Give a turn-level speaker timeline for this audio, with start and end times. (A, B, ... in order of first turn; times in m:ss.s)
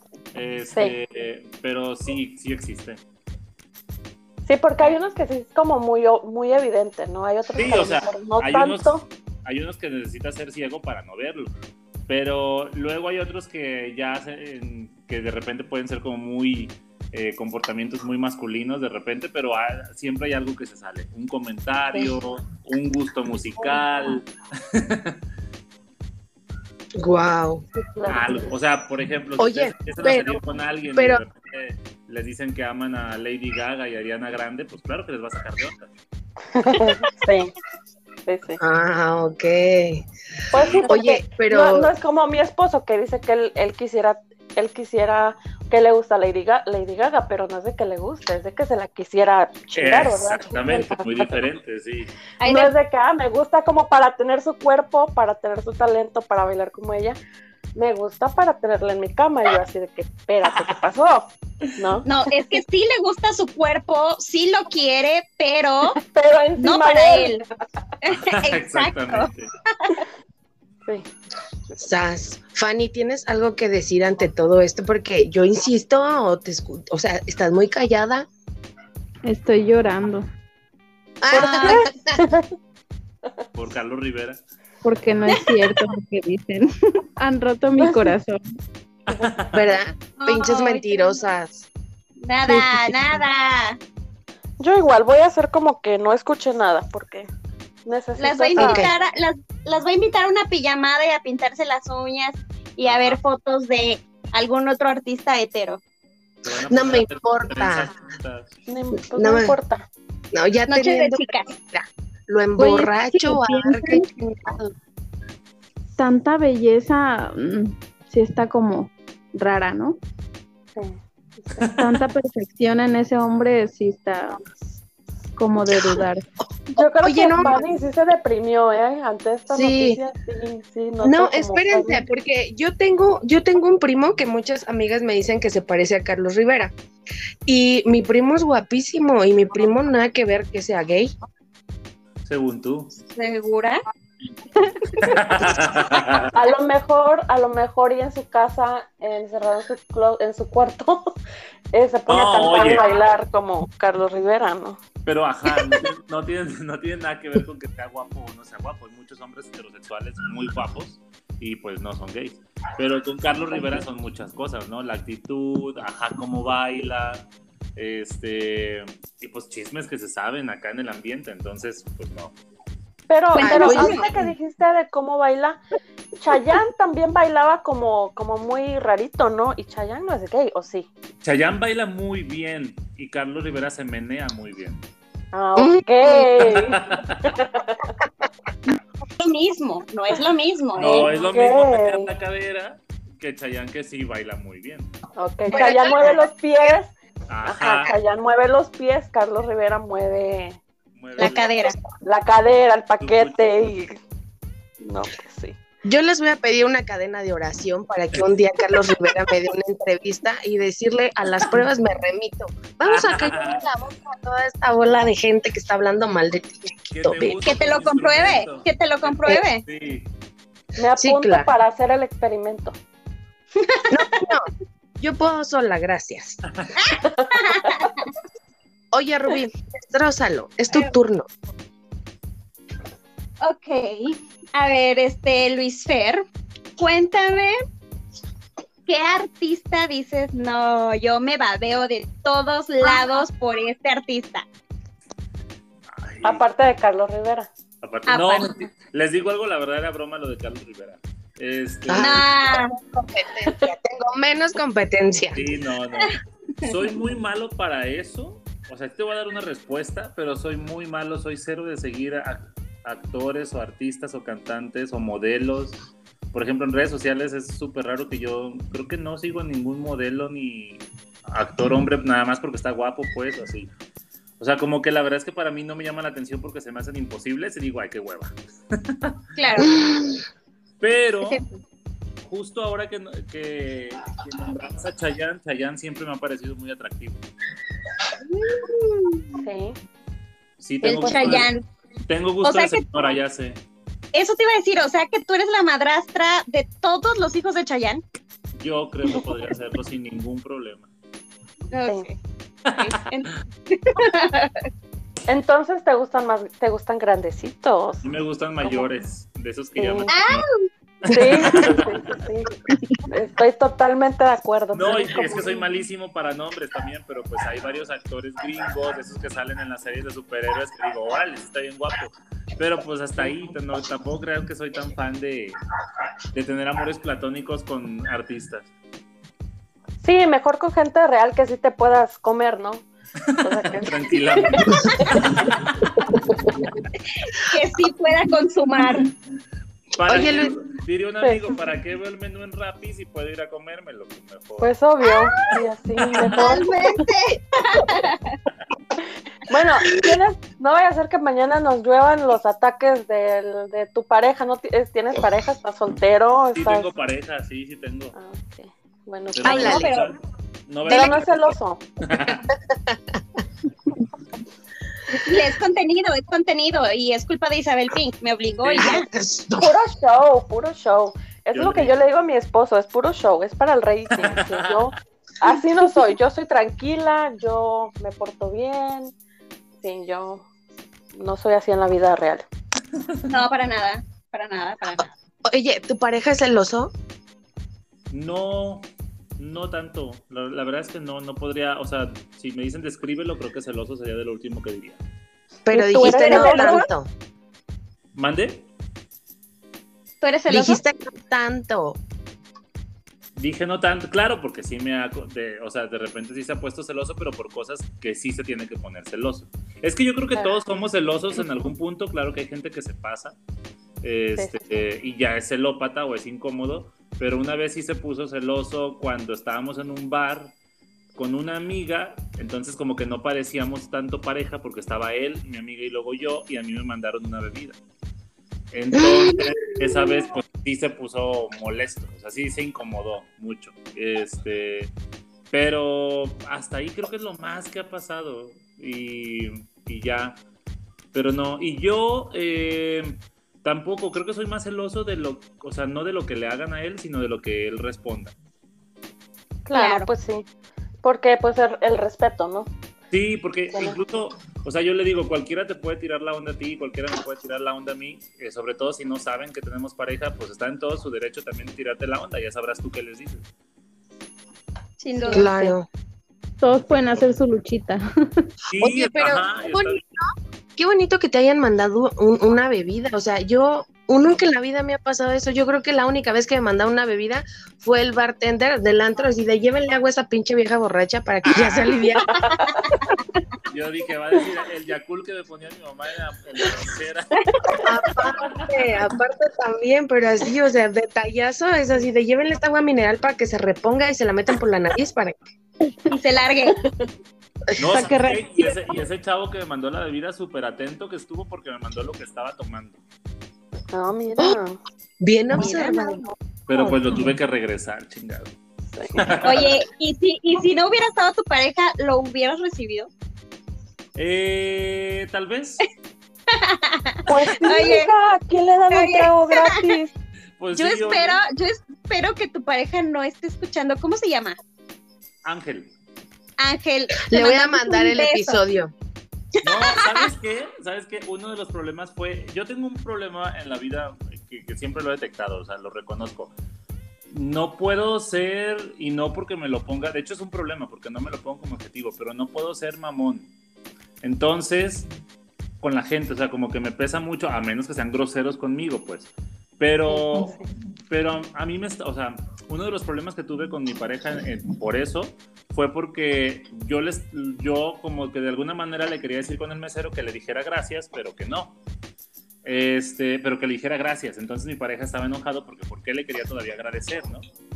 0:00.3-0:03.0 A
0:04.4-0:09.0 B
0:07.6-0:11.5 A
0:12.1-0:25.2 A
0:27.0-0:27.6 C
0:27.8-0:28.3 B
0:28.1-0:35.9 A
0:29.4-0:30.4 C
0:30.9-0:31.2 C
0:36.6-0:37.5 B
0:38.2-0:38.6 B
0:38.6-0:40.0 C
0:40.5-0:51.4 B
0:40.5-0:40.9 A
0:40.8-0:41.9 C
0:49.8-0:52.1 A
0:52.4-0:52.7 D
0:52.4-0:57.2 B
0:57.8-1:02.0 B
1:02.0-1:06.0 D
1:06.0-1:07.5 B
1:06.6-1:07.4 D
1:08.0-1:09.9 D
1:08.1-1:09.5 A
1:11.8-1:18.3 C
1:19.2-1:20.2 E
1:21.2-1:22.2 C
1:21.3-1:21.8 D
1:21.3-1:22.4 B
1:23.5-1:24.4 A
1:24.8-1:28.5 E
1:27.8-1:28.1 B
1:29.1-1:29.7 A
1:29.5-1:31.7 C
1:30.2-1:31.2 D
1:32.2-1:33.8 D
1:32.5-1:32.9 E
1:34.6-1:37.3 B
1:37.8-1:38.9 B
1:38.2-1:45.8 D
1:38.6-1:38.9 C
1:42.8-1:43.2 A
1:46.4-1:48.5 A
1:46.7-1:47.9 C
1:48.7-1:49.8 B
1:49.1-1:49.5 C
1:50.3-1:54.7 C
1:50.7-1:51.5 D
1:52.6-1:54.0 E
1:56.0-2:00.0 E
2:00.8-2:01.7 B
2:01.7-2:04.4 E
2:05.4-2:06.2 E
2:06.7-2:12.0 B
2:07.0-2:07.6 C
2:09.5-2:10.0 C
2:11.0-2:16.7 C
2:17.4-2:21.1 C
2:22.2-2:22.9 A
2:23.0-2:23.8 D
2:25.0-2:26.3 A
2:26.3-2:31.1 B
2:31.7-2:34.8 B
2:32.1-2:32.8 A
2:35.0-2:52.3 A
2:53.1-2:55.6 B
2:53.3-2:54.0 D
2:53.4-2:54.3 C
2:56.2-3:00.9 B
3:01.2-3:04.8 A
3:05.3-3:07.9 B
3:05.6-3:06.3 C
3:06.4-3:07.3 A
3:09.2-3:11.1 D
3:10.8-3:14.9 A
3:11.0-3:12.1 B
3:15.2-3:16.9 B
3:15.5-3:16.1 D
3:15.5-3:16.0 C
3:17.3-3:17.9 A
3:17.4-3:20.6 B
3:21.0-3:21.6 A
3:21.2-3:21.8 D
3:22.0-3:24.0 B
3:23.0-3:23.4 A
3:24.8-3:25.6 B
3:25.8-3:37.4 C
3:32.8-3:33.7 A
3:36.9-3:40.1 A
3:37.4-3:39.6 D
3:40.8-3:42.8 B
3:41.0-3:41.5 C
3:43.5-3:44.0 D
3:43.9-3:44.5 C
3:45.0-3:46.4 C
3:46.8-3:48.1 D
3:48.9-3:51.3 C
3:53.4-3:56.2 D
3:56.8-3:57.6 D
3:58.9-4:04.4 D
4:05.9-4:06.4 A
4:06.2-4:07.5 B
4:07.8-4:12.2 A
4:08.1-4:08.6 D
4:11.8-4:15.4 C
4:12.0-4:12.7 D
4:15.3-4:25.8 A
4:26.3-4:33.7 A
4:34.4-4:39.2 A
4:39.4-4:39.7 D
4:39.6-4:40.2 C
4:40.8-4:41.4 A
4:41.2-4:41.5 D
4:42.2-4:47.2 A
4:48.2-4:49.4 D
4:49.4-4:49.8 B
4:50.6-4:51.5 A
4:50.8-4:51.6 D
4:52.1-4:53.6 A
4:52.4-4:53.1 D
4:54.1-4:58.0 D
4:58.6-5:00.9 A
5:01.7-5:02.1 D
5:02.8-5:04.6 D
5:05.3-5:08.0 B
5:08.0-5:10.5 A
5:09.8-5:10.1 B
5:10.1-5:10.5 D
5:11.0-5:12.0 A
5:11.1-5:12.5 B
5:13.1-5:15.6 B
5:14.7-5:25.6 A
5:26.3-5:28.7 A
5:30.0-5:32.8 B
5:33.3-5:35.9 A
5:33.4-5:35.1 B
5:36.3-5:36.6 C
5:37.3-5:39.1 D
5:40.0-5:44.7 A
5:40.0-5:40.5 C
5:41.2-5:41.5 B
5:44.6-5:46.7 B
5:45.0-5:45.3 D
5:46.3-5:48.4 D
5:49.5-5:56.9 B
5:56.5-5:58.2 A
5:58.1-5:59.8 B
5:59.3-6:02.5 A
5:59.4-6:00.1 D
5:59.5-5:59.9 C
6:00.9-6:01.8 B
6:02.3-6:03.2 C
6:05.1-6:09.0 D
6:08.6-6:09.0 A
6:08.8-6:09.7 C
6:09.6-6:19.1 B
6:11.5-6:11.9 A
6:14.2-6:14.8 A
6:19.8-6:20.4 B
6:21.1-6:22.4 B
6:23.3-6:25.1 D
6:25.4-6:26.9 C
6:28.1-6:35.0 A
6:35.6-6:37.1 C
6:35.7-6:36.8 B
6:36.0-6:36.9 D
6:38.1-6:38.6 A
6:40.2-6:40.8 D
6:40.5-6:42.0 C
6:43.4-6:53.4 A
6:54.0-7:00.5 A
6:54.4-6:54.6 B
7:01.2-7:07.8 A
7:08.7-7:14.9 A
7:08.9-7:10.2 C
7:15.5-7:20.4 A
7:21.1-7:28.3 A
7:29.6-7:30.4 B
7:29.7-7:30.1 D
7:31.0-7:32.7 B
7:33.1-7:43.4 A
7:33.7-7:34.0 B
7:45.0-7:45.7 D
7:45.3-7:45.9 C
7:46.6-7:48.4 E
7:48.7-7:50.0 A
7:48.8-8:02.4 C
8:01.4-8:02.1 A
8:02.2-8:02.9 B
8:03.7-8:07.4 A
8:07.8-8:15.4 C
8:16.1-8:16.8 D
8:17.8-8:23.0 A
8:17.8-8:18.1 C
8:23.9-8:24.8 B
8:25.2-8:26.3 C
8:25.6-8:26.2 D
8:26.7-8:28.5 A
8:28.9-8:29.3 B
8:29.2-8:29.7 A
8:29.4-8:33.1 D
8:34.2-8:35.8 A
8:36.5-8:38.1 D
8:37.3-8:40.1 B
8:38.9-8:39.8 D
8:40.6-8:41.4 A
8:40.7-8:44.6 D
8:45.4-8:45.9 A
8:46.6-8:48.6 D
8:47.2-8:48.9 C
8:49.6-8:56.5 A
8:57.3-9:03.5 A
9:04.2-9:05.1 A
9:05.8-9:10.6 A
9:11.1-9:21.8 A
9:22.6-9:27.4 A